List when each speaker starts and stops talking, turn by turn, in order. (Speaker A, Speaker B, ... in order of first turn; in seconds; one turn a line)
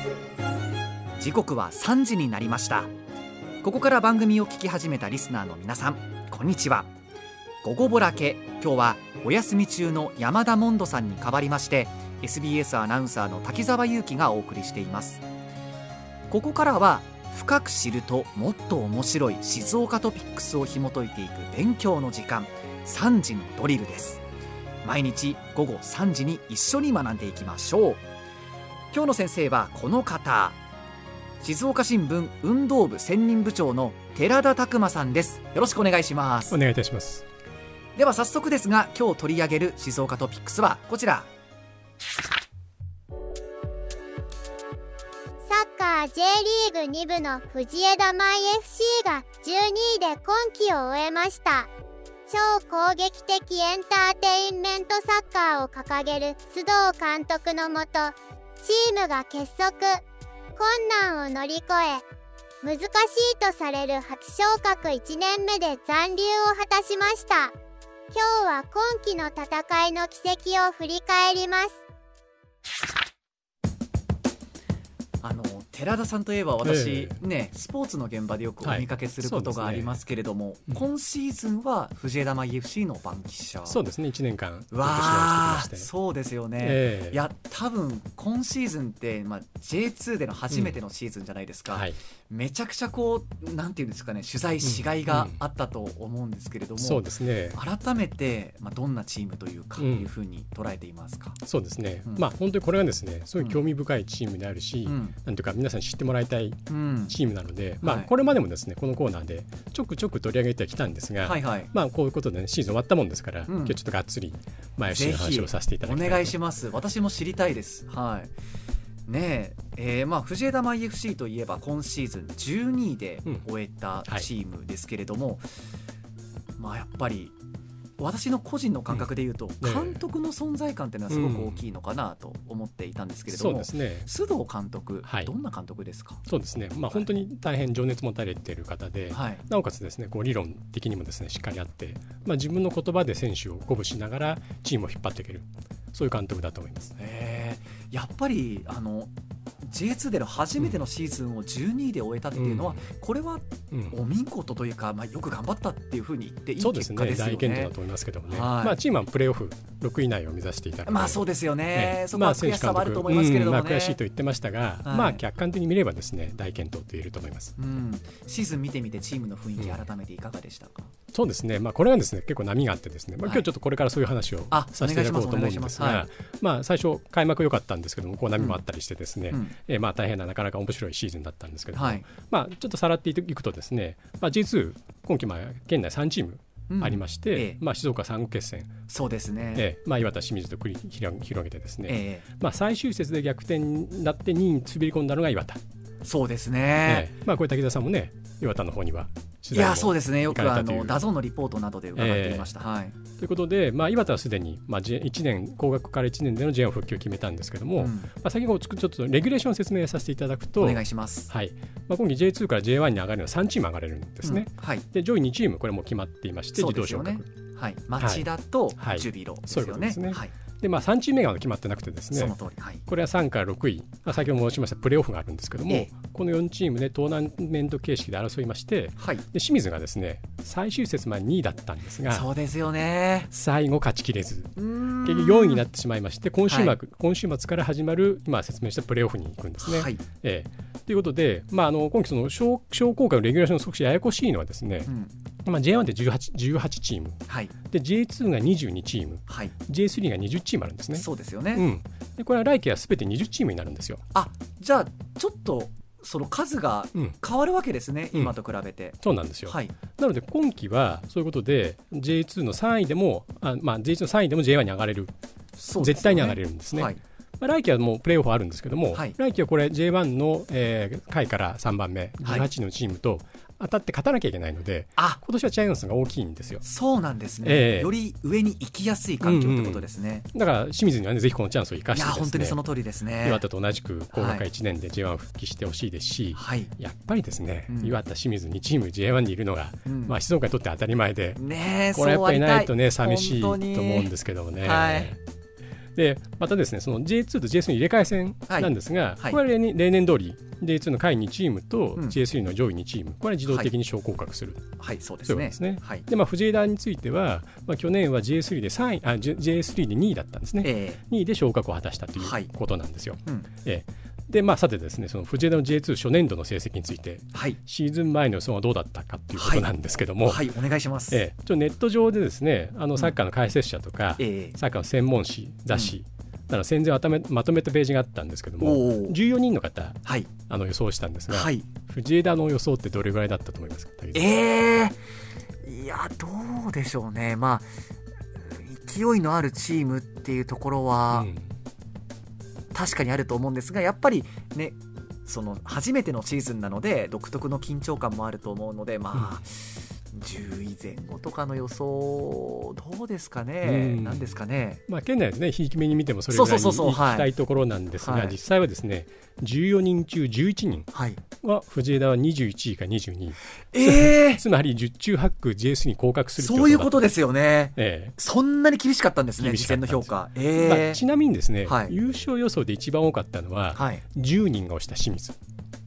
Speaker A: 1.2-2.9
Speaker A: 3.6-6.9
Speaker A: 7.6-15.2
Speaker A: 16.3-24.2
Speaker A: 24.8-28.0
Speaker A: 28.9-30.6
Speaker A: 31.4-36.6
Speaker B: 36.5-37.2
Speaker A: 38.0-41.3
Speaker C: 45.4-51.7
Speaker C: 52.3-60.0
Speaker C: 60.6-62.0
Speaker C: 62.6-67.5
Speaker C: 68.1-71.8
Speaker A: 75.2-83.8
Speaker B: 76.6-77.2
Speaker B: 78.6-80.0
Speaker B: 83.7-85.9
Speaker A: 84.7-101.4
Speaker B: 86.6-87.2
Speaker B: 91.7-92.0
Speaker B: 94.6-95.4
Speaker B: 96.8-97.6
Speaker B: 99.8-100.1
Speaker B: 101.5-116.4
Speaker A: 104.9-105.2
Speaker A: 106.7-107.2
Speaker A: 107.8-108.1
Speaker A: 111.2-111.7
Speaker A: 113.5-113.8
Speaker A: 114.9-118.3
Speaker A: 119.1-125.5
Speaker A: 126.6-127.3
Speaker A: 128.0-136.2
Speaker B: 129.6-130.0
Speaker B: 131.1-131.6
Speaker B: 133.3-134.1
Speaker B: 135.1-135.3
Speaker B: 136.3-147.0
Speaker A: 139.1-139.4
Speaker A: 147.0-149.1
Speaker A: 149.6-157.7
Speaker B: 152.3-152.9
Speaker B: 153.7-154.0
Speaker B: 156.6-167.5
Speaker A: 158.3-158.8
Speaker A: 160.9-164.0
Speaker A: 164.8-165.2
Speaker A: 167.6-170.9
Speaker B: 169.6-169.8
Speaker B: 171.1-188.8
Speaker A: 174.5-176.1
Speaker A: 181.8-182.1
Speaker A: 186.7-187.6
Speaker A: 188.9-189.7
Speaker B: 189.6-195.6
Speaker A: 191.9-192.2
Speaker A: 196.0-197.1
Speaker B: 196.8-201.0
Speaker A: 199.5-203.0
Speaker B: 201.9-202.5
Speaker B: 203.2-217.3
Speaker A: 207.8-208.1
Speaker A: 210.6-211.3
Speaker A: 214.2-214.8
Speaker A: 216.6-220.3
Speaker B: 218.0-218.3
Speaker B: 218.8-222.4
Speaker A: 222.1-222.8
Speaker B: 222.9-232.3
Speaker A: 229.0-229.2
Speaker A: 232.1-233.3
Speaker B: 233.3-244.9
Speaker A: 234.6-235.6
Speaker A: 236.5-236.8
Speaker A: 239.6-240.0
Speaker A: 244.9-245.1
Speaker B: 245.4-254.0
Speaker A: 247.3-247.5
Speaker A: 249.3-249.5
Speaker A: 250.9-251.7
Speaker A: 254.1-259.8
Speaker B: 259.0-265.1
Speaker A: 265.6-267.0
Speaker B: 265.8-276.6
Speaker A: 276.6-280.3
Speaker B: 277.4-277.9
Speaker B: 279.2-282.6
Speaker A: 281.9-283.4
Speaker B: 283.2-291.4
Speaker A: 284.1-284.5
Speaker A: 286.4-286.7
Speaker A: 287.7-288.0
Speaker A: 289.9-290.2
Speaker A: 291.4-295.1
Speaker B: 291.9-295.2
Speaker B: 296.0-320.5
Speaker A: 298.5-299.4
Speaker A: 303.5-303.7
Speaker A: 304.8-306.1
Speaker A: 310.6-311.0
Speaker A: 312.2-312.5
Speaker A: 319.4-319.7
Speaker A: 320.2-321.2
Speaker B: 321.1-334.3
Speaker A: 324.2-324.6
Speaker A: 325.7-326.0
Speaker A: 328.6-329.2
Speaker A: 330.1-330.3
Speaker A: 331.3-331.7
Speaker A: 334.1-335.0
Speaker A: 335.6-337.7
Speaker A: 338.4-341.3
Speaker B: 341.1-341.5
Speaker A: 342.7-354.8
Speaker B: 349.1-349.4
Speaker B: 353.6-354.4
Speaker B: 354.9-367.0
Speaker A: 356.3-357.3
Speaker A: 358.0-358.4
Speaker A: 360.9-361.2
Speaker A: 363.7-364.4
Speaker A: 366.4-371.0
Speaker B: 367.8-368.1
Speaker B: 369.4-375.4
Speaker A: 371.6-371.9
Speaker A: 373.8-374.0